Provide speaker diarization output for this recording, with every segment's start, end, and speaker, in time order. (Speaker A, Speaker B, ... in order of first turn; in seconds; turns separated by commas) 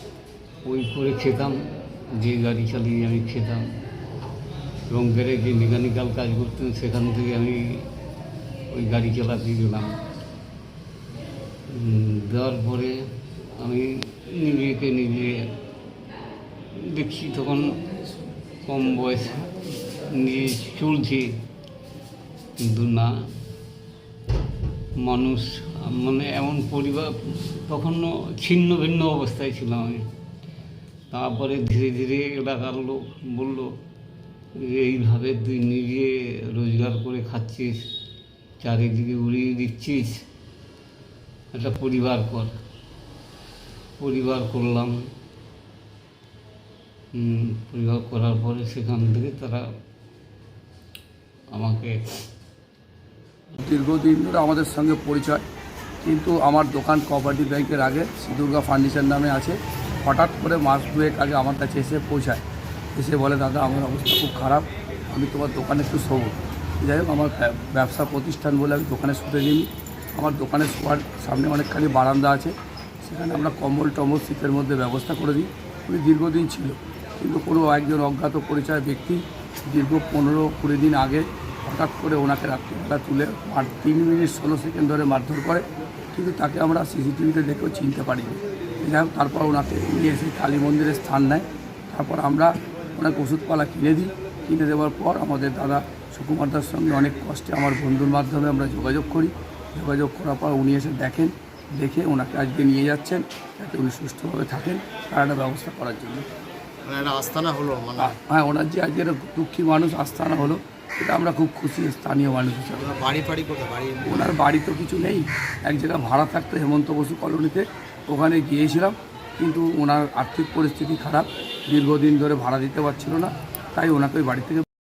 Speaker A: 0.6-1.6, Speaker A: 2.1-3.6, Speaker A: 4.9-7.9, Speaker A: 8.7-9.9, Speaker A: 11.7-15.5, Speaker A: 16.8-17.7, Speaker A: 18.6-21.4, Speaker A: 22.6-23.1, Speaker A: 25.0-30.1, Speaker A: 31.1-33.7, Speaker A: 34.6-37.8, Speaker A: 38.6-40.2, Speaker A: 41.5-42.5, Speaker A: 44.0-45.0, Speaker A: 47.1-49.7, Speaker A: 51.5-52.0, Speaker B: 53.6-55.4, Speaker B: 56.0-62.4, Speaker B: 63.0-106.3, Speaker C: 106.8-108.1, Speaker B: 108.0-113.0, Speaker C: 113.0-114.3, Speaker B: 114.0-124.6